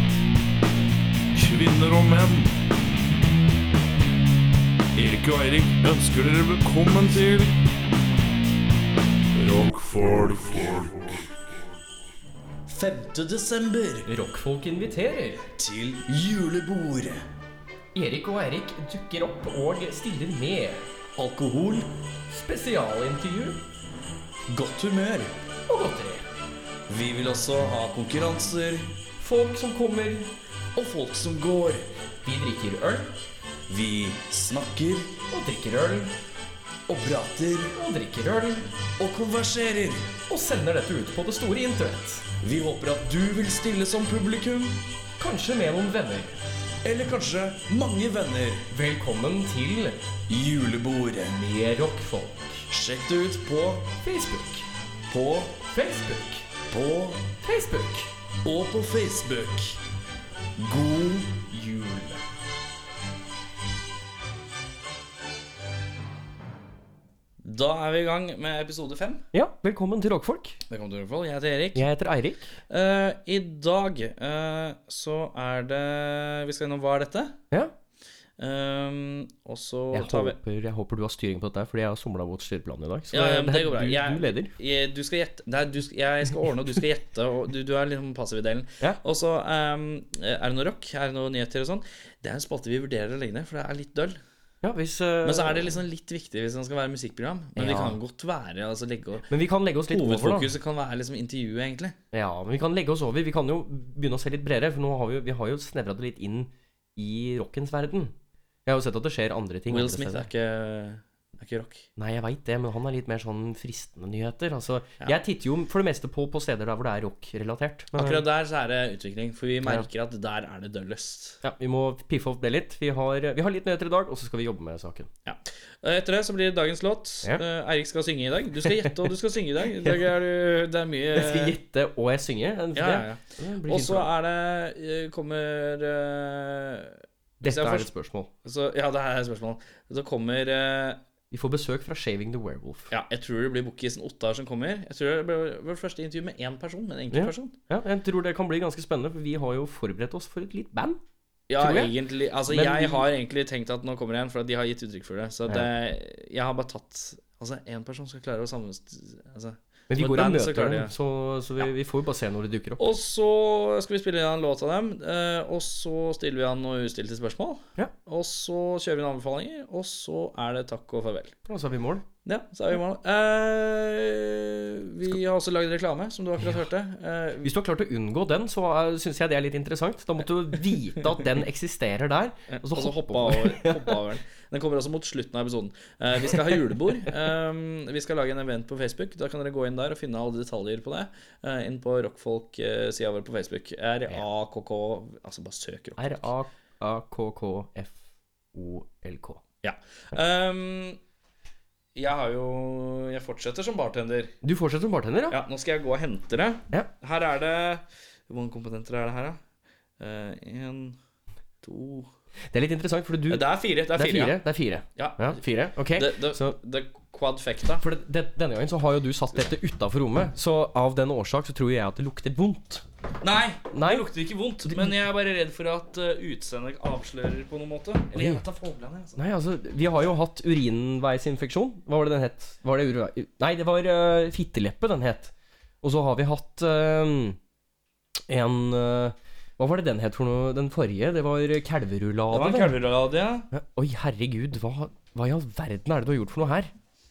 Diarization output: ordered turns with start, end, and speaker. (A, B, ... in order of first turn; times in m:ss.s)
0:01.4-0:02.5 A
0:05.0-0:05.9 A
0:05.4-0:07.4 B
0:06.4-0:07.5 A
0:09.4-0:11.1 B
0:12.7-0:14.1 A
0:14.1-0:15.4 C
0:15.6-0:17.2 A
0:17.9-0:20.8 C
0:21.2-0:21.9 A
0:22.3-0:23.6 C
0:24.5-0:25.3 A
0:25.7-0:26.2 C
0:26.9-0:28.9 A
0:29.2-0:30.3 C
0:30.8-0:31.8 A
0:32.2-0:33.1 C
0:33.7-0:35.2 A
0:35.3-0:36.1 C
0:36.9-0:37.8 A
0:37.8-0:38.7 C
0:39.0-0:40.1 A
0:40.3-0:42.3 C
0:42.4-0:44.8 A
0:45.2-0:46.4 C
0:46.8-0:48.7 A
0:48.7-0:50.0 C
0:50.3-0:51.4 A
0:51.3-0:52.6 C
0:52.7-0:53.9 A
0:54.0-0:54.7 C
0:55.1-0:55.6 A
0:55.7-0:56.5 C
0:56.7-0:57.3 A
0:57.4-0:58.1 C
0:58.4-0:59.8 A
1:00.6-1:02.2 A
1:07.4-1:09.2 A
1:09.3-1:10.6 C
1:10.7-1:11.9 A
1:11.8-1:12.6 C
1:12.7-1:17.4 A
1:18.4-1:20.4 A
1:19.9-1:24.5 C
1:23.1-1:34.2 A
1:34.6-1:35.8 C
1:35.2-1:39.3 A
1:37.6-1:38.0 C
1:39.3-1:40.5 C
1:39.9-1:42.0 A
1:42.1-1:48.1 C
1:48.7-1:50.3 C
1:49.7-1:51.9 A
1:52.0-1:58.2 C
1:57.9-2:01.4 A
2:01.4-2:05.1 C
2:05.3-2:11.6 A
2:08.6-2:09.1 C
2:09.8-2:10.1 C
2:11.1-2:14.1 C
2:12.8-2:17.9 A
2:17.4-2:18.3 C
2:18.4-2:21.0 A
2:21.3-2:22.9 C
2:22.9-2:27.5 A
2:27.1-2:31.0 C
2:31.5-2:40.9 A
2:31.6-2:32.0 C
2:32.5-2:33.1 C
2:39.9-2:42.9 C
2:42.8-2:51.4 A
2:51.5-2:52.1 C
2:52.2-2:57.5 A
2:57.4-3:04.0 C
3:02.5-3:16.3 A
3:06.2-3:06.6 C
3:16.0-3:18.0 C
3:18.5-3:19.4 C
3:19.6-3:21.0 A
3:22.0-3:24.4 A
3:24.4-3:25.4 C
3:25.3-3:29.4 A
3:30.0-3:31.0 A
3:31.6-3:32.1 A
3:32.5-3:36.6 C
3:33.3-3:34.4 A
3:35.0-3:35.4 A
3:35.9-3:37.8 A
3:37.8-3:42.8 C
3:43.2-3:49.2 A
3:43.7-3:44.1 C
3:44.7-3:45.0 C
3:48.2-3:48.4 C
3:49.2-3:57.4 C
3:58.3-4:02.8 C
4:02.3-4:03.5 A
4:03.5-4:06.7 C